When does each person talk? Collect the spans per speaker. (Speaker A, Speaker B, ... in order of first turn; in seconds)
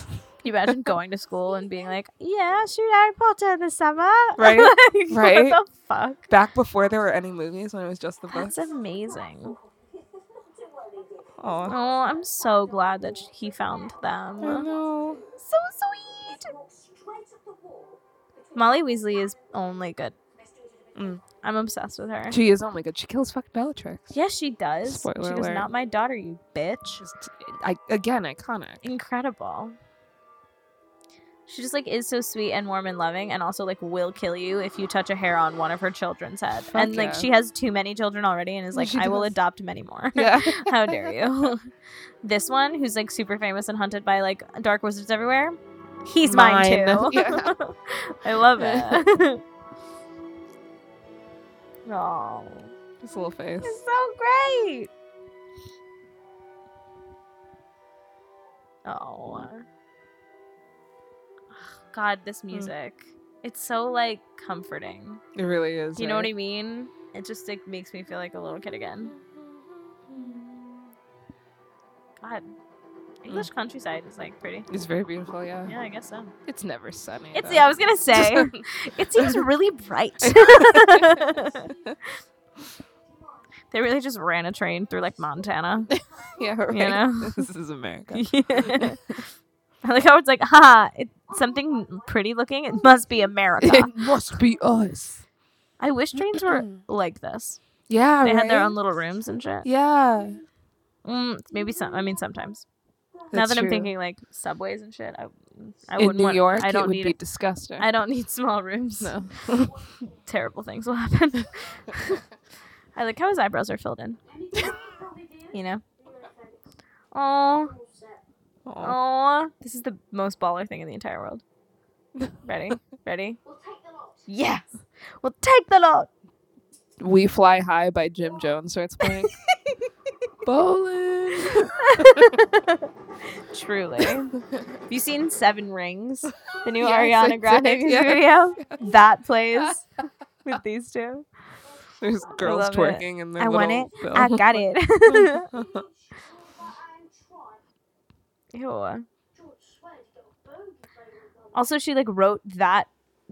Speaker A: 0.4-6.3, 8.3-9.6, 11.7-14.7, 15.4-16.5, 18.6-20.2, 21.4-22.4, 24.1-27.0, 28.8-29.8, 31.5-41.7, 42.2-49.4, 51.9-52.7, 53.6-54.9, 58.9-59.6, 61.7-65.2, 66.0-69.2, 72.2-72.5, 73.2-74.7, 75.7-76.3, 77.3-81.7, 83.7-85.9, 86.7-87.5, 88.1-89.0, 89.8-94.0, 95.8-97.6, 98.2-99.7, 101.0-102.7, 103.3-107.2, 107.8-109.3, 110.2-112.2, 113.0-114.2, 115.5-115.8, 117.1-117.8, 118.8-121.4, 122.4-123.4, 124.3-124.7, 125.2-126.1, 131.4-134.3, 134.9-139.8, 140.4-141.3, 142.3-145.5, 148.5-149.1, 151.5-152.9
Speaker B: 4.4-5.6, 6.3-8.6, 11.4-11.8, 14.4-15.2, 20.9-21.2, 22.3-24.1, 24.9-25.7, 27.0-28.8, 36.7-37.3, 38.7-39.4, 40.1-41.1, 46.2-47.5, 48.6-49.0, 53.0-53.8, 65.3-66.3, 70.1-70.8, 74.7-75.7, 76.5-78.6, 79.2-79.5, 80.2-81.2, 85.9-89.0, 93.6-95.2, 96.2-96.8, 97.9-98.8, 99.6-100.4, 103.3-103.9, 106.0-107.9, 109.0-109.7, 118.7-119.0, 127.0-129.3, 130.4-132.4, 136.8-138.8, 142.0-145.8
Speaker C: 9.1-15.4, 16.2-21.2, 81.3-81.9, 83.0-83.5, 84.8-86.6, 91.3-92.1, 92.8-93.3, 101.5-102.2, 109.5-110.3, 114.3-116.7, 117.5-118.2, 123.4-124.3, 141.7-142.6, 143.9-144.3, 145.5-147.6, 149.3-151.7